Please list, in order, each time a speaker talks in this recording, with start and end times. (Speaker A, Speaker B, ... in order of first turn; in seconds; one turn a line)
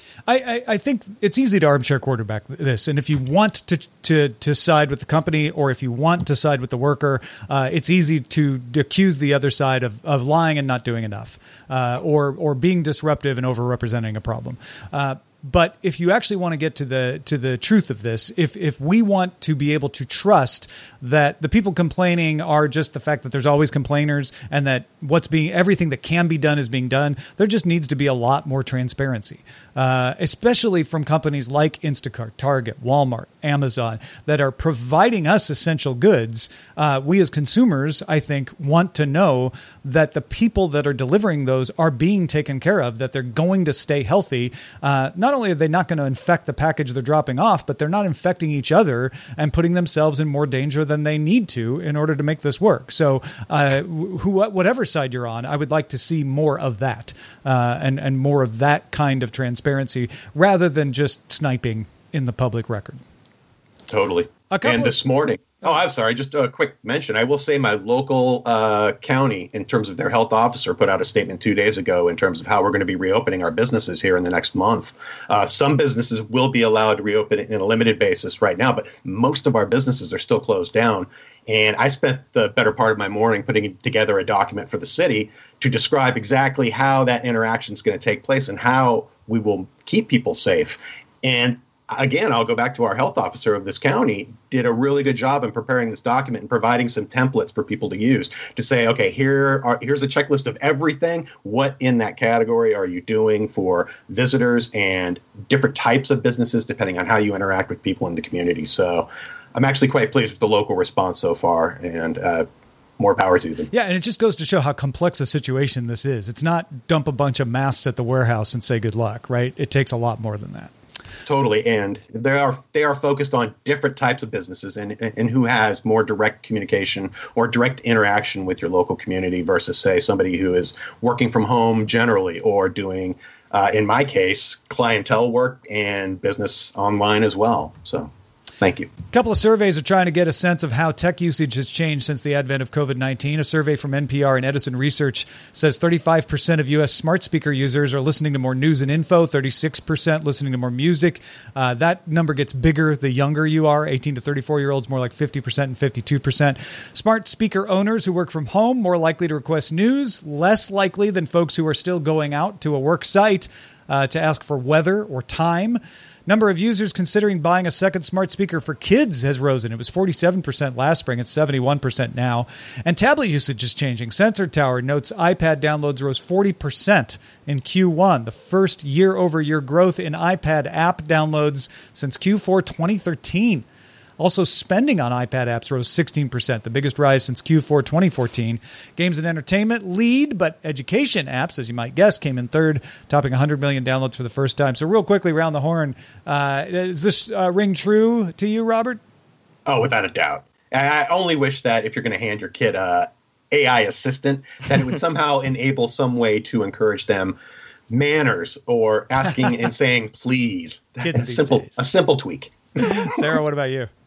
Speaker A: 0.3-63.0
Speaker B: 63.9-112.5
Speaker A: 64.5-65.0
Speaker B: 113.0-113.7
Speaker A: 113.7-120.7
Speaker B: 121.2-138.9
Speaker A: 139.1-183.6
Speaker A: 184.2-199.0
Speaker B: 199.7-207.3
Speaker B: 207.9-212.9
Speaker A: 211.0-211.8
Speaker A: 212.8-213.9